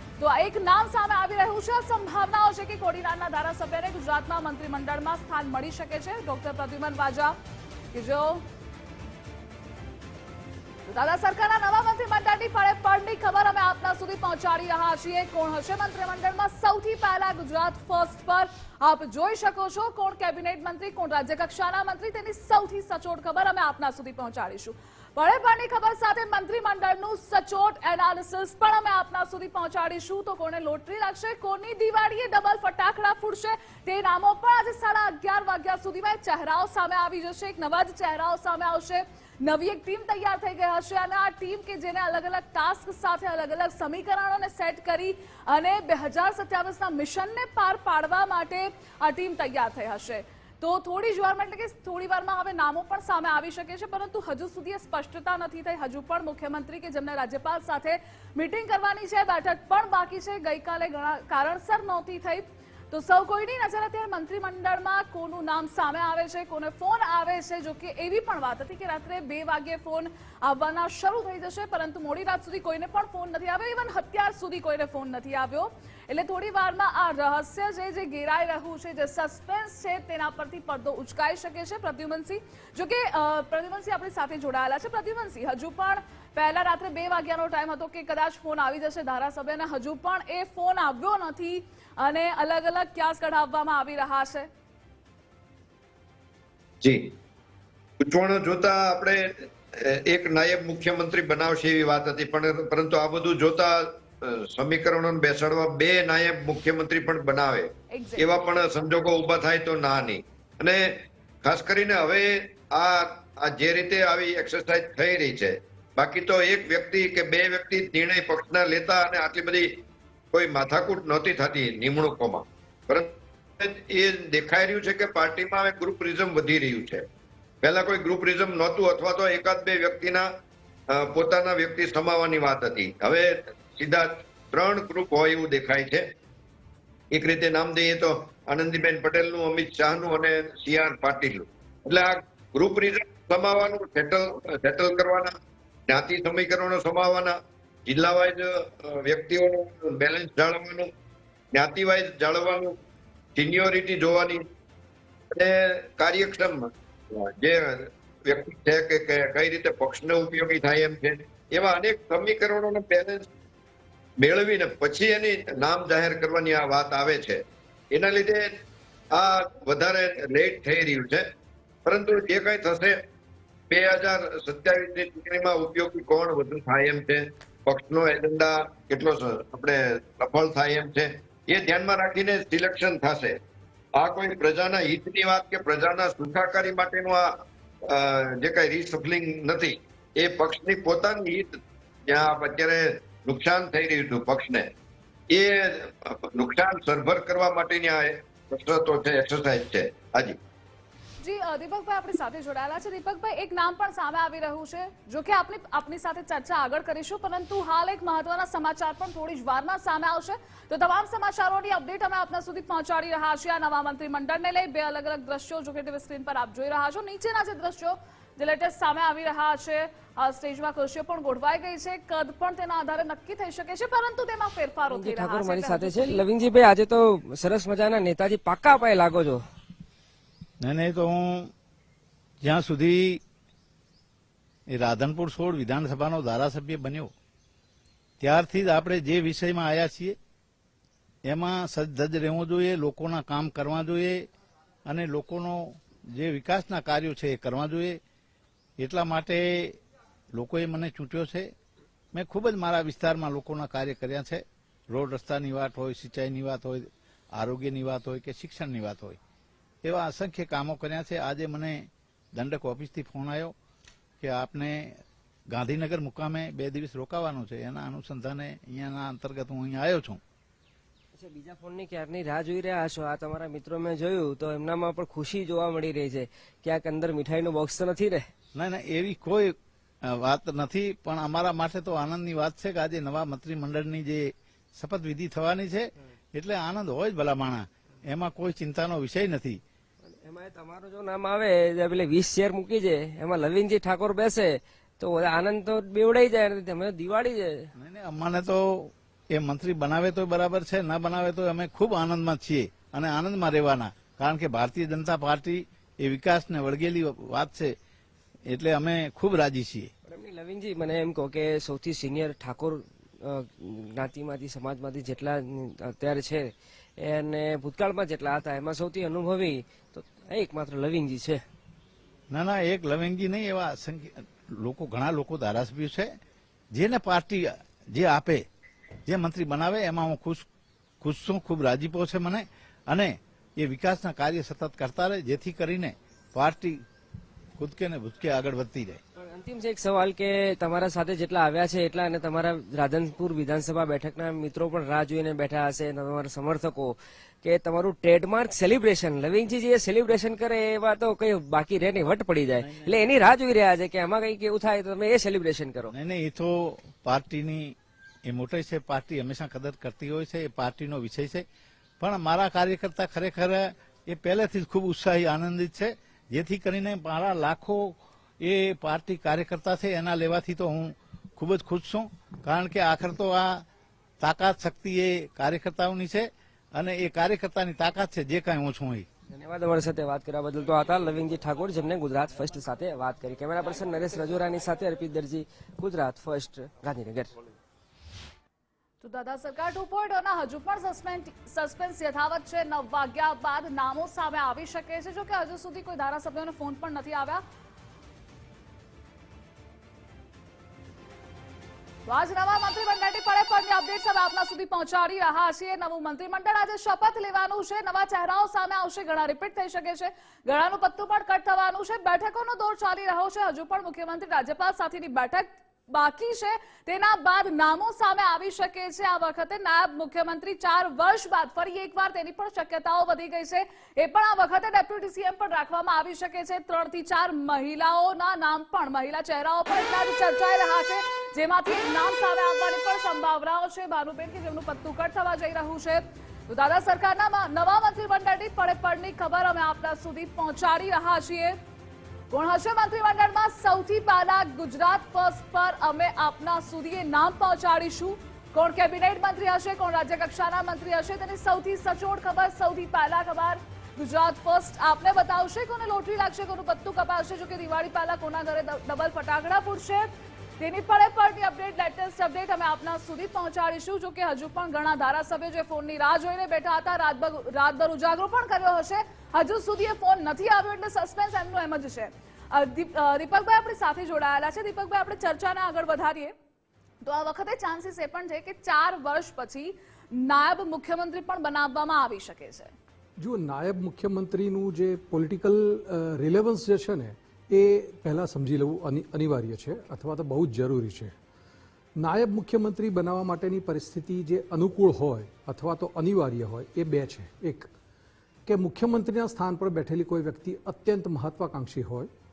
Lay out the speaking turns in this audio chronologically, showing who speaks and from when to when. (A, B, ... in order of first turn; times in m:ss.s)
0:00.2-0:07.4 A
0:07.9-0:08.4 A
0:10.9-1:34.5 A
1:36.8-1:37.1 B
1:38.0-1:59.8 B
1:47.9-1:48.4 A
2:00.3-2:07.0 B
2:07.6-2:10.3 B
2:10.9-2:16.0 B
2:17.1-2:25.3 B
2:25.9-2:30.9 B
2:31.5-2:32.8 B
2:33.4-2:34.4 B
2:35.3-2:43.3 B
2:44.2-2:48.5 B
2:49.1-2:51.3 B
2:51.8-2:53.0 B
2:53.7-3:03.4 B
3:04.0-3:14.7 B
3:15.3-3:20.4 B
3:21.2-3:46.2 A
3:44.9-3:49.4 C
3:50.6-3:51.5 D
3:52.4-3:53.2 D
3:54.7-3:57.1 D
3:58.2-4:00.2 D
4:01.2-4:04.2 D
4:04.8-4:08.0 D
4:08.8-4:09.8 D
4:10.3-4:11.5 D
4:12.1-4:19.2 D
4:19.8-4:23.5 D
4:24.2-4:30.2 D
4:31.2-4:38.2 C
4:38.6-4:49.6 D
4:50.0-4:57.7 C
4:57.8-5:07.7 D
5:08.5-5:09.9 D
5:10.1-5:21.4 C
5:22.3-5:26.1 D
5:26.7-5:28.4 D
5:29.1-5:30.5 D
5:31.0-5:36.8 D
5:37.6-5:39.0 D
5:39.2-5:55.9 C
5:52.6-5:52.9 D
5:55.9-6:01.4 D
6:02.0-6:13.6 D
6:14.2-6:19.1 D
6:19.3-6:27.3 C
6:29.0-6:37.4 A
6:42.1-7:21.6 A
7:22.3-7:40.1 A
7:40.6-7:56.3 A
7:57.0-8:02.7 A
8:03.2-8:11.1 E
8:12.0-8:17.7 E
8:18.5-8:22.1 E